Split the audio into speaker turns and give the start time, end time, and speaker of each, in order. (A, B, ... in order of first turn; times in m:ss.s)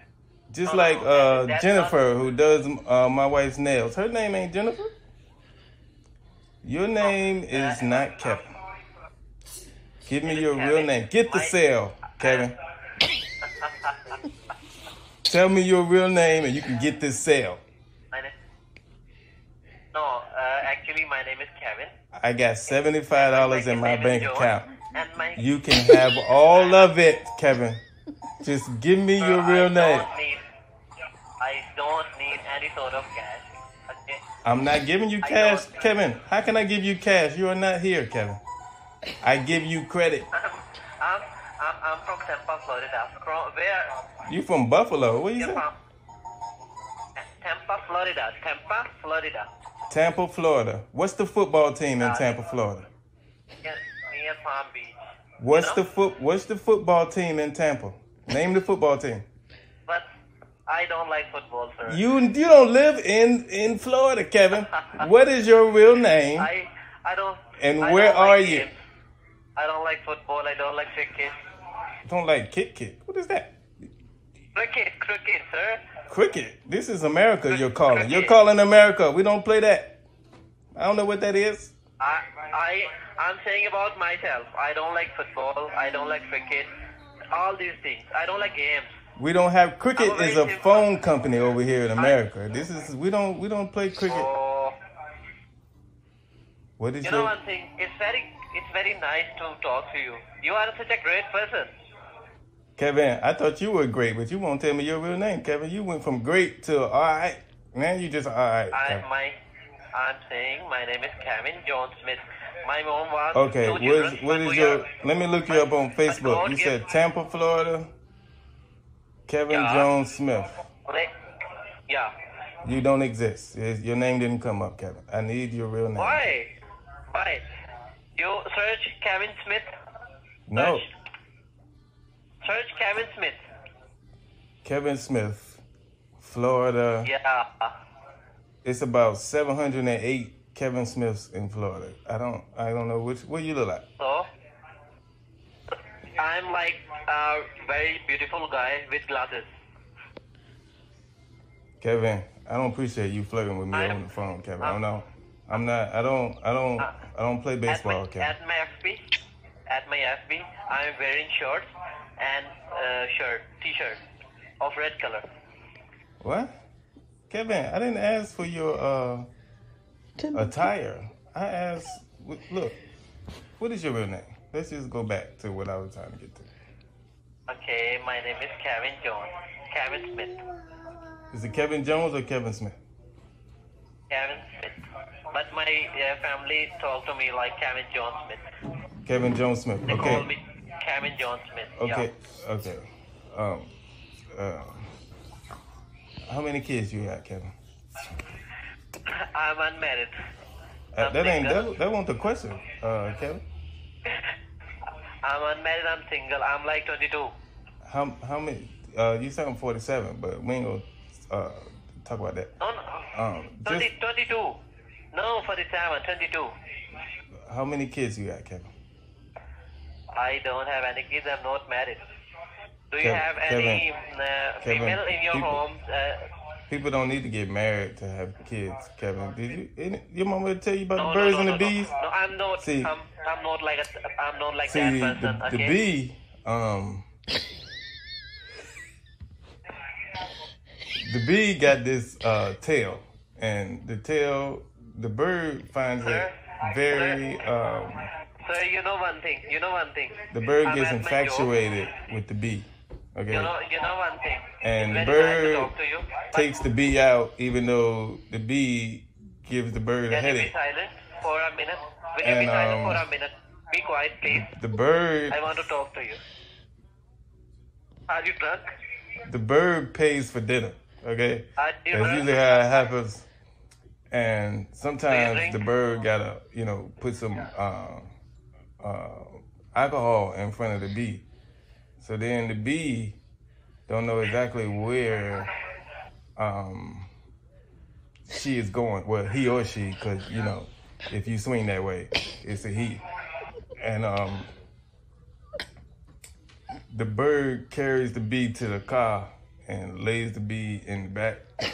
0:00.5-0:04.9 A
0:00.6-0:02.0 B
0:06.6-0:08.5 A
0:07.0-0:08.4 B
0:10.0-0:12.5 A
0:10.2-0:11.5 B
0:12.2-0:12.5 B
0:13.4-0:14.2 B
0:15.3-0:17.6 A
0:19.9-0:21.9 B
0:22.1-0:24.7 A
0:23.1-0:25.5 B
0:25.4-0:27.8 A
0:26.5-0:26.9 B
0:28.4-0:30.0 A
0:29.2-0:30.4 B
0:31.4-0:34.2 B
0:34.4-0:38.4 A
0:35.2-0:35.8 B
0:39.2-0:40.3 A
0:40.3-0:44.0 B
0:44.2-0:45.6 A
0:45.4-0:45.8 B
0:47.2-0:49.5 B
0:49.9-0:52.9 A
0:52.0-0:52.4 B
0:53.6-0:55.8 B
0:55.4-0:59.2 A
1:00.7-1:02.0 B
1:01.8-1:06.5 A
1:04.7-1:05.1 B
1:06.4-1:08.8 B
1:07.6-1:08.7 A
1:09.6-1:11.4 B
1:12.0-1:13.6 A
1:14.5-1:15.8 B
1:16.1-1:20.0 A
1:17.5-1:18.3 B
1:20.8-1:21.7 A
1:22.0-1:26.7 B
1:27.3-1:28.9 B
1:29.2-1:34.3 A
1:30.0-1:30.9 B
1:34.1-1:34.8 B
1:36.8-1:37.3 A
1:37.0-1:41.7 B
1:42.8-1:49.0 A
1:48.7-1:49.4 B
1:49.9-1:54.9 B
1:53.3-1:57.9 A
1:55.5-1:56.8 B
1:59.3-2:00.6 A
1:59.5-1:59.9 B
2:00.9-2:01.1 B
2:01.9-2:02.1 B
2:02.6-2:06.2 A
2:06.0-2:06.5 B
2:07.1-2:07.4 B
2:08.2-2:09.7 B
2:10.5-2:10.8 A
2:10.5-2:10.9 B
2:12.4-2:13.4 B
2:14.6-2:15.6 A
2:16.2-2:17.1 A
2:17.0-2:17.7 B
2:18.6-2:23.8 A
2:24.0-2:24.3 B
2:25.9-2:29.5 B
2:31.8-2:38.3 A
2:33.7-2:34.0 B
2:37.7-2:39.1 B
2:39.7-2:44.0 B
2:44.6-2:45.2 B
2:46.2-2:46.5 A
2:47.3-2:49.3 A
2:50.3-2:52.8 A
2:53.6-2:56.5 A
2:57.5-3:00.4 B
3:01.3-3:02.8 A
3:04.1-3:08.4 B
3:09.0-3:10.3 A
3:09.9-3:12.1 B
3:11.8-3:13.7 A
3:14.3-3:14.9 A
3:16.3-3:17.5 A
3:19.0-3:20.1 B
3:20.9-3:23.4 A
3:21.0-3:21.7 B
3:24.0-3:24.3 B
3:25.2-3:27.3 B
3:27.8-3:32.5 A
3:32.6-3:33.1 B
3:33.1-3:33.9 A
3:33.6-3:34.6 B
3:35.1-3:36.5 B
3:37.4-3:38.7 A
3:40.1-3:42.0 B
3:42.9-3:46.3 B
3:43.0-3:43.8 A
3:44.6-3:45.6 A
3:46.7-3:51.9 A
3:51.0-3:55.8 B
3:52.6-3:52.9 A
3:54.6-3:57.1 A
4:01.0-4:08.1 A
4:06.0-4:07.2 B
4:08.4-4:11.5 B
4:10.3-4:13.5 A
4:13.3-4:16.5 B
4:14.6-4:15.7 A
4:16.3-4:20.5 A
4:20.1-4:24.5 B
4:22.2-4:23.1 A
4:24.3-4:25.4 A
4:25.3-4:26.2 B
4:28.1-4:28.7 B
4:29.2-4:33.2 A
4:31.6-4:32.4 B
4:34.1-4:38.1 A
4:35.1-4:35.6 B
4:38.8-4:41.2 A
4:42.0-4:43.2 A
4:43.9-4:45.5 A
4:46.4-4:47.1 A
4:48.3-4:53.0 A
4:53.8-4:54.5 A
4:56.9-5:01.4 A